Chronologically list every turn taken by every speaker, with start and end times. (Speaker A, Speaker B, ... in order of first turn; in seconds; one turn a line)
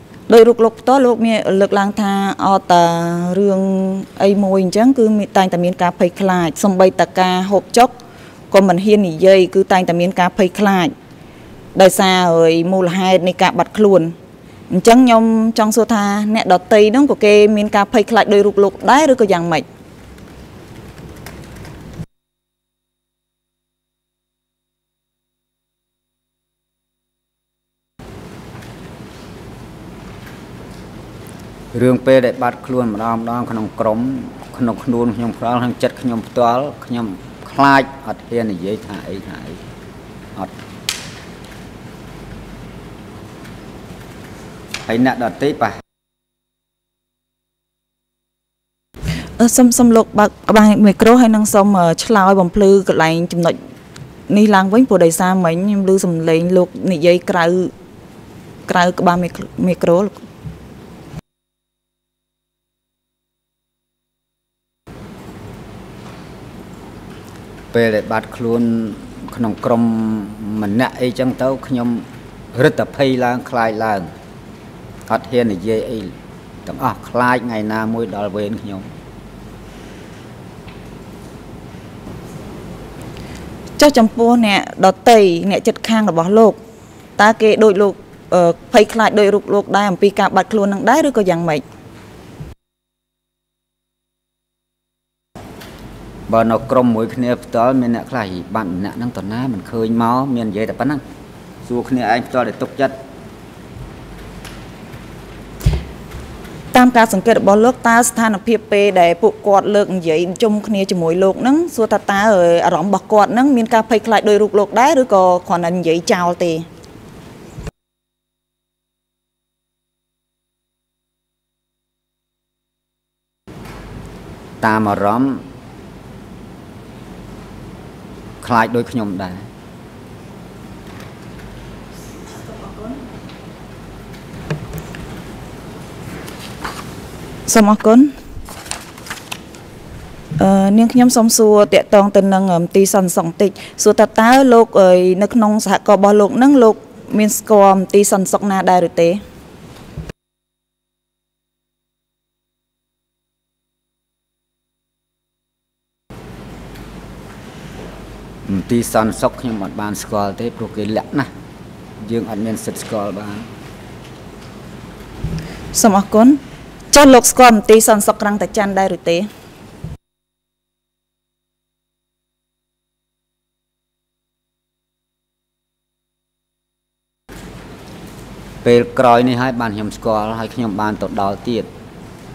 Speaker A: 0.3-7.9
Speaker A: 8.5-10.9
Speaker A: 11.8-14.1
Speaker A: 14.7-19.6
Speaker B: 31.7-39.6
Speaker B: 44.9-45.8
Speaker A: 49.4-53.6
Speaker A: 54.3-57.7
Speaker A: 58.7-60.2
Speaker B: 67.7-74.1
Speaker B: 75.1-76.1
Speaker B: 76.7-78.9
Speaker A: 83.8-86.6
Speaker A: 87.2-91.6
Speaker B: 96.3-101.0
Speaker B: 101.6-103.0
Speaker A: 106.7-116.7
Speaker B: 124.6-125.4
Speaker B: 128.4-129.4
Speaker A: 132.5-132.9
Speaker A: 137.5-138.1
Speaker A: 140.4-149.2
Speaker B: 158.5-161.3
Speaker B: 162.0-163.5
Speaker A: 165.7-169.3
Speaker B: 178.6-181.7